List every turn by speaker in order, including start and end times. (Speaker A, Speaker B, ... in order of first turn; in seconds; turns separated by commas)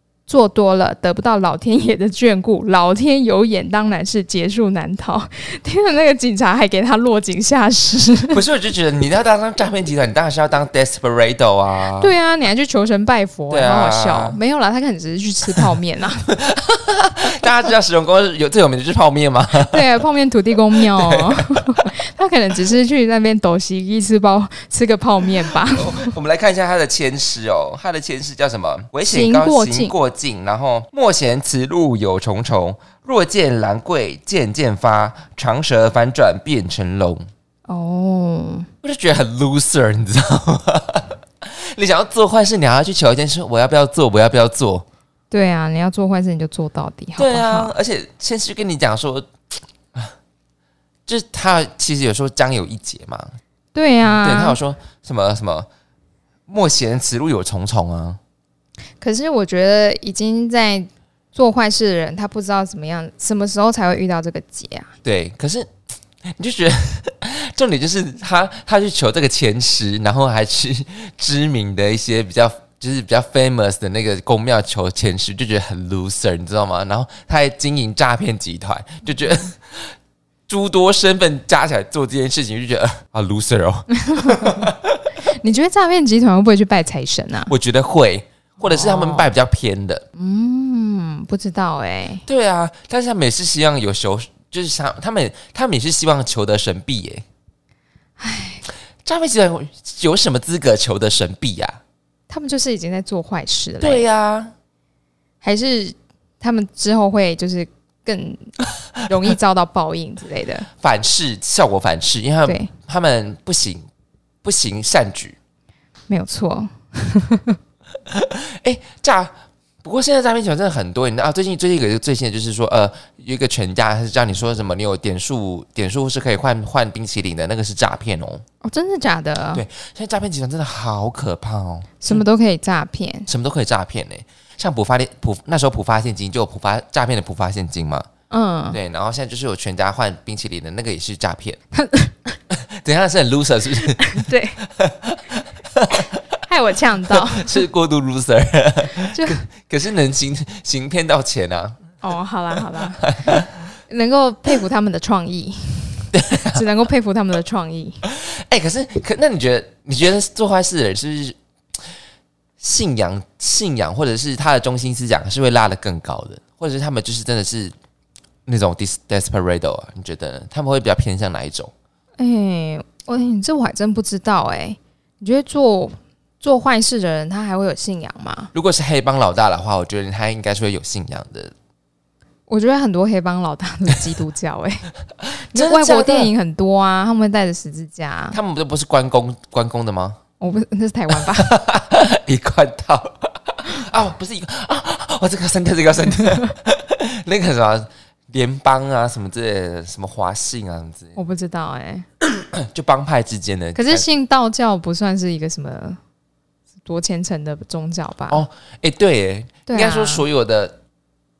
Speaker A: 0.3-8.4, Speaker B: 8.3-12.1, Speaker A: 12.0-16.3, Speaker B: 13.5-14.4, Speaker B: 16.3-19.8, Speaker A: 19.6-26.2, Speaker B: 20.7-21.6, Speaker B: 25.4-37.2, Speaker A: 29.1-29.9, Speaker A: 37.7-38.7, Speaker B: 38.8-44.9, Speaker A: 45.3-47.7, Speaker B: 47.2-49.3, Speaker B: 51.1-53.3, Speaker A: 53.8-54.6, Speaker B: 54.1-55.7, Speaker B: 56.5-58.2, Speaker A: 59.0-64.9, Speaker B: 65.0-65.7, Speaker B: 66.2-80.0, Speaker B: 80.5-85.0, Speaker A: 83.9-84.7, Speaker A: 85.3-87.5, Speaker B: 87.5-90.0, Speaker A: 88.6-89.3, Speaker A: 90.2-92.2, Speaker B: 92.3-97.2, Speaker A: 98.2-98.7, Speaker B: 99.0-101.8, Speaker A: 102.3-104.1, Speaker B: 103.8-104.5, Speaker A: 105.4-110.7, Speaker B: 110.8-113.8, Speaker A: 112.5-112.7, Speaker B: 114.4-115.4, Speaker A: 116.1-117.6, Speaker B: 118.1-119.3, Speaker B: 119.8-128.4, Speaker A: 128.6-129.6, Speaker B: 129.5-132.2, Speaker A: 132.0-133.3, Speaker B: 133.3-138.1, Speaker A: 138.3-138.8, Speaker B: 138.7-141.6, Speaker A: 141.7-142.4, Speaker B: 142.5-146.2, Speaker A: 144.0-144.6, Speaker A: 146.5-147.6, Speaker B: 147.1-151.8, Speaker A: 149.1-149.4, Speaker A: 152.0-158.0, Speaker B: 153.0-153.5, Speaker B: 156.1-156.6, Speaker B: 158.1-161.8, Speaker B: 162.6-167.7, Speaker B: 168.5-171.7, Speaker A: 172.2-178.5, Speaker B: 178.5-181.5, Speaker A: 182.5-184.9, Speaker B: 185.4-186.3, Speaker A: 185.5-188.4, Speaker B: 188.3-190.2, Speaker A: 190.4-191.6, Speaker B: 191.2-201.2, Speaker A: 201.2-202.1, Speaker B: 202.2-204.1, Speaker A: 203.8-206.0, Speaker A: 206.9-208.4, Speaker B: 208.3-210.8, Speaker A: 209.7-210.2